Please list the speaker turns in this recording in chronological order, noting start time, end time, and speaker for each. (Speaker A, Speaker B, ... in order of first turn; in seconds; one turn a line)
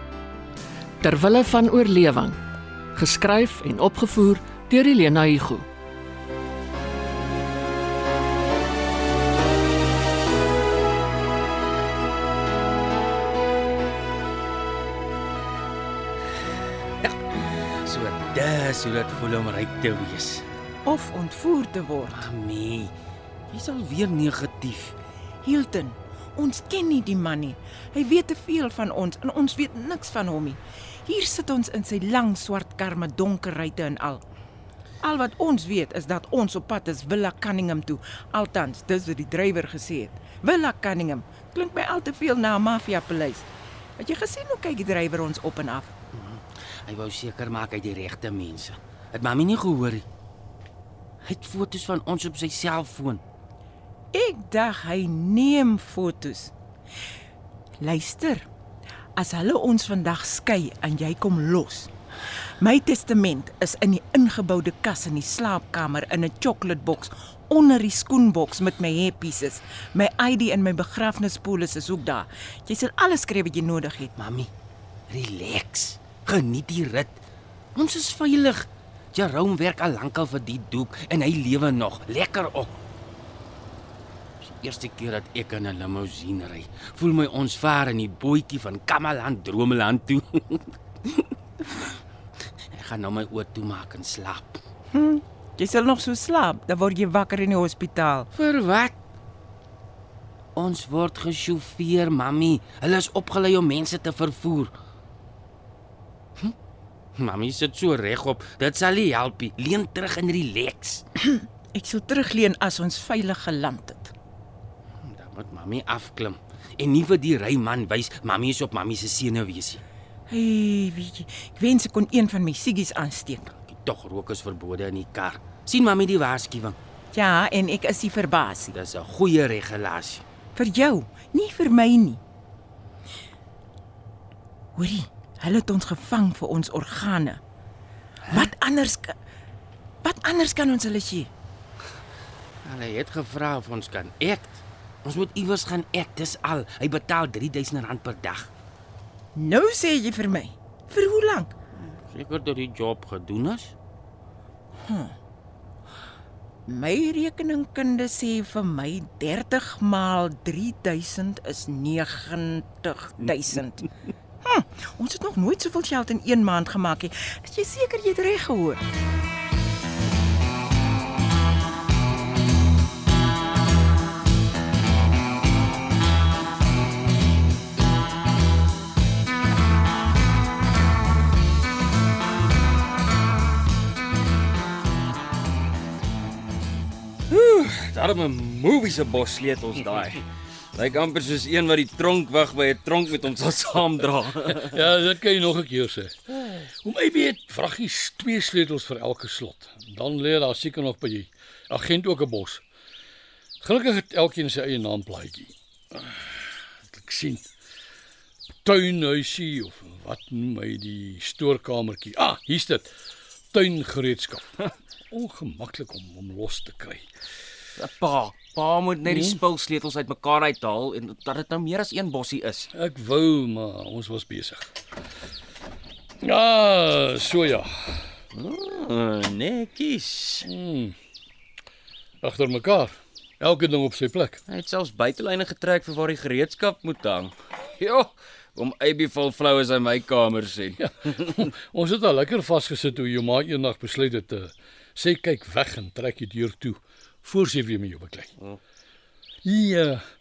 Speaker A: 1.0-2.4
Speaker A: 2.9-5.7
Speaker B: 16.8-20.5
Speaker C: 20.8-22.3
Speaker B: 22.1-22.9
Speaker B: 23.5-24.9
Speaker C: 25.4-34.2
Speaker C: 35.0-43.5
Speaker C: 44.0-45.9
Speaker B: 46.1-50.0
Speaker B: 51.2-53.2
Speaker C: 54.1-56.5
Speaker C: 57.8-58.5
Speaker C: 59.2-61.9
Speaker C: 62.6-74.1
Speaker B: 74.2-74.5
Speaker B: 75.1-77.2
Speaker B: 77.7-82.8
Speaker B: 84.4-91.9
Speaker B: 92.7-94.6
Speaker C: 94.9-98.3
Speaker B: 98.3-99.0
Speaker B: 100.5-104.7
Speaker B: 107.2-111.0
Speaker C: 111.2-114.1
Speaker B: 115.0-119.8
Speaker C: 120.3-123.5
Speaker B: 123.5-126.8
Speaker C: 127.1-128.7
Speaker B: 128.7-130.2
Speaker C: 130.5-132.2
Speaker C: 134.8-137.4
Speaker C: 138.3-139.2
Speaker C: 140.0-141.3
Speaker B: 142.6-148.5
Speaker C: 149.3-151.5
Speaker B: 151.8-153.8
Speaker C: 154.8-155.2
Speaker C: 156.7-163.9
Speaker C: 164.4-168.8
Speaker D: 187.3-190.2
Speaker D: 190.7-194.7
Speaker E: 194.6-202.6
Speaker E: 203.6-206.2
Speaker E: 206.9-207.5
Speaker E: 208.6-212.9
Speaker E: 213.5-217.1
Speaker D: 217.8-222.7
Speaker E: 219.1-219.4
Speaker E: 222.7-224.7
Speaker E: 226.2-228.1
Speaker D: 228.3-230.5
Speaker E: 230.4-230.9
Speaker E: 232.2-234.4
Speaker D: 234.5-241.3
Speaker E: 240.8-248.3
Speaker E: 249.4-250.0